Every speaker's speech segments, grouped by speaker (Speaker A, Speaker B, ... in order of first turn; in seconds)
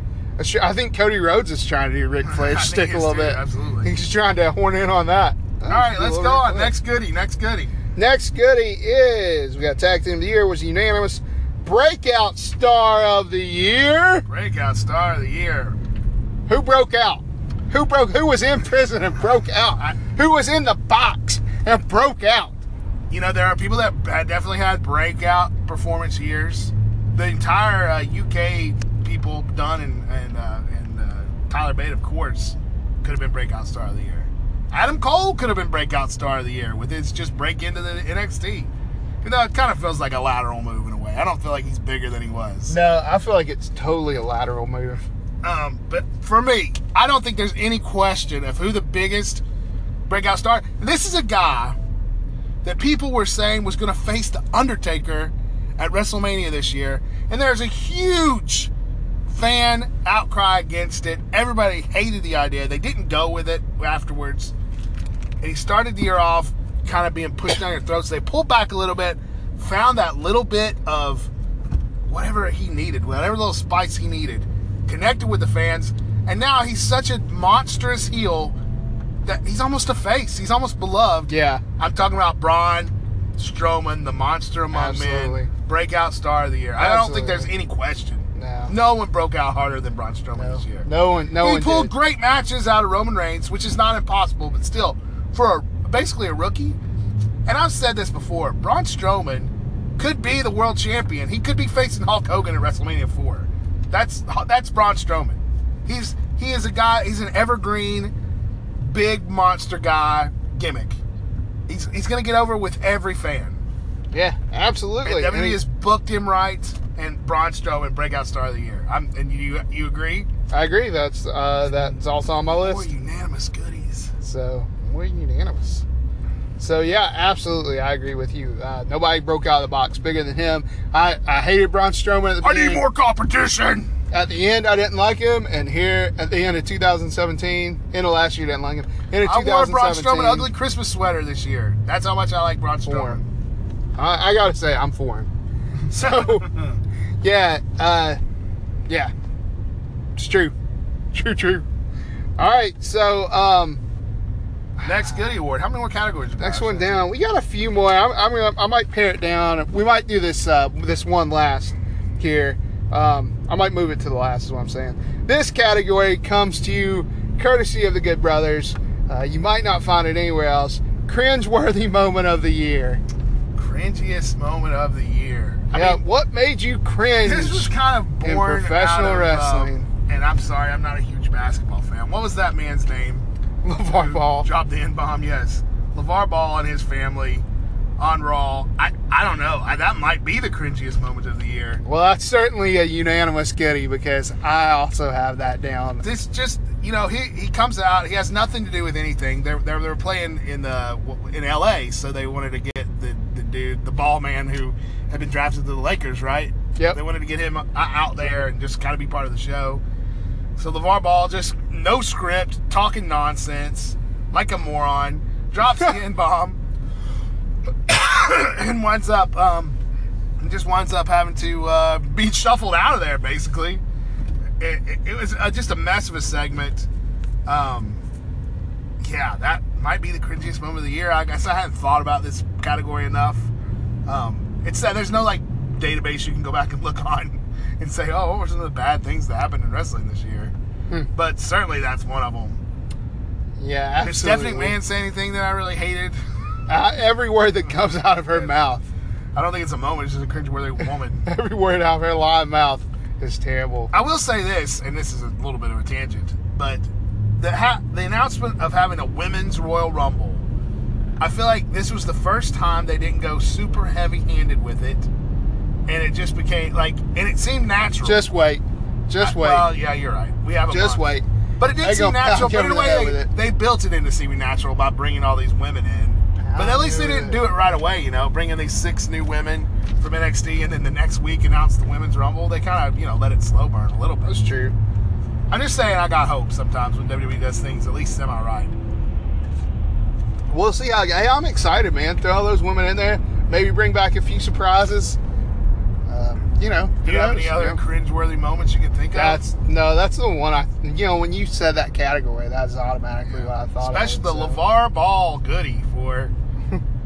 Speaker A: 0.4-6.7, 7.9-14.2, 16.5-22.6, 42.7-45.0, 81.3-81.6, 84.7-85.5, 86.8-87.5, 88.3-88.7, 90.3-91.9, 114.1-115.6, 120.5-122.9, 124.2-125.8, 126.6-132.8, 134.1-140.5, 142.8-143.2, 143.9-145.3, 145.9-146.5, 147.2-148.2, 150.2-150.5, 151.1-151.7, 152.4-153.8, 156.4-173.0, 175.7-179.9, 183.6-184.5, 191.8-196.0, 243.6-244.8, 246.7-248.8, 251.2-253.9, 268.0-269.7, 270.7-273.3, 276.4-277.4, 284.2-284.7, 290.5-295.2, 296.1-297.8, 299.1-304.6
Speaker B: 2.2-3.9, 5.7-7.7, 14.3-15.8, 23.1-38.7, 39.2-42.8, 45.4-49.4, 50.1-51.8, 52.6-58.7, 59.3-64.5, 65.4-71.3, 72.0-78.5, 79.2-96.8, 97.5-108.1, 108.8-111.0, 111.7-113.6, 115.0-120.3, 121.7-124.1, 132.4-133.9, 139.2-143.3, 145.9-146.8, 154.8-157.0, 173.5-176.0, 177.2-183.3, 183.9-187.4, 188.0-191.8, 196.0-209.8, 210.6-216.6, 217.9-219.8, 220.4-223.8, 224.6-226.9, 227.4-228.0, 229.0-233.5, 234.1-240.5, 241.1-242.6, 244.0-246.2, 249.3-251.2, 253.9-256.9, 257.4-260.4, 261.2-265.1, 265.9-268.2, 269.2-271.0, 271.6-284.4, 285.5-288.7, 297.0-299.4, 303.3-306.3